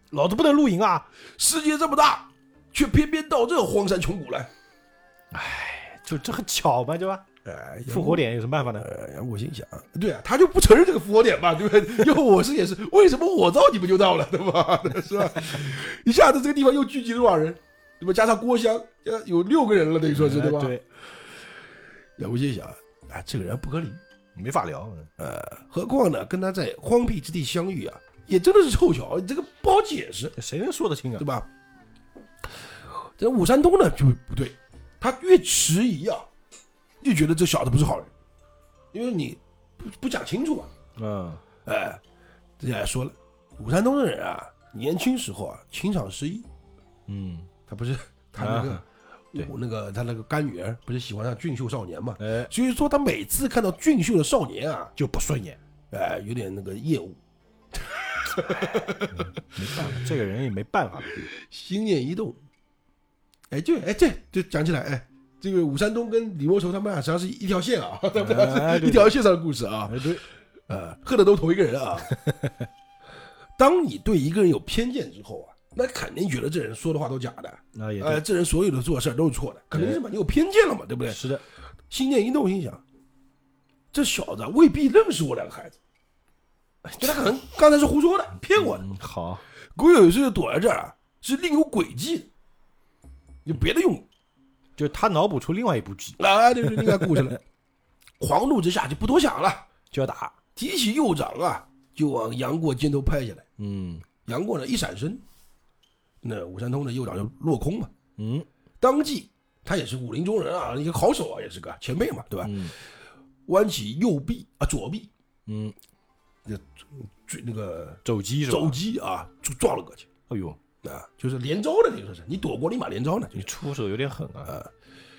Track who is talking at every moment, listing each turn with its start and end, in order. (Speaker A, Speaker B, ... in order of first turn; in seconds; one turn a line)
Speaker A: 0.1-1.1
Speaker B: 1.4-4.5
Speaker A: 5.3-7.2
Speaker B: 7.4-8.2
Speaker A: 7.8-8.9
Speaker B: 8.8-20.7
Speaker A: 20.1-20.8
Speaker B: 22.2-24.0
Speaker A: 24.3-25.1
Speaker B: 25.2-30.4
Speaker A: 30.4-31.2
Speaker B: 31.2-31.5
Speaker B: 33.2-36.3
Speaker B: 37.0-38.1
Speaker B: 38.9-40.7
Speaker A: 41.0-41.4
Speaker B: 41.6-42.0
Speaker B: 42.6-46.5
Speaker A: 47.1-47.5
Speaker B: 47.7-54.9
Speaker A: 48.4-48.8
Speaker A: 52.2-52.5
Speaker A: 55.0-55.6
Speaker B: 55.9-57.2
Speaker B: 57.7-60.0
Speaker A: 59.1-61.1
Speaker B: 61.3-62.4
Speaker B: 63.5-70.1
Speaker A: 68.1-69.1
Speaker A: 69.8-70.2
Speaker B: 70.7-72.1
Speaker A: 72.1-72.7
Speaker B: 73.6-81.2
Speaker A: 77.7-78.2
Speaker A: 79.7-80.0
Speaker A: 81.1-81.4
Speaker B: 81.9-82.8
Speaker B: 83.9-85.8
Speaker A: 86.9-87.2
Speaker B: 87.0-88.9
Speaker A: 88.5-89.4
Speaker B: 89.8-92.3
Speaker B: 93.4-94.0
Speaker A: 94.8-97.3
Speaker B: 96.2-97.4
Speaker B: 98.2-99.7
Speaker A: 99.9-100.3
Speaker B: 100.5-103.5
Speaker A: 103.6-104.1
Speaker B: 104.2-105.2
Speaker B: 106.2-107.9
Speaker A: 108.2-108.5
Speaker B: 108.8-112.7
Speaker A: 112.4-112.7
Speaker B: 113.5-115.1
Speaker A: 115.5-115.7
Speaker B: 116.5-120.1
Speaker A: 118.0-118.8
Speaker A: 120.3-120.6
Speaker B: 120.8-123.5
Speaker A: 123.3-124.5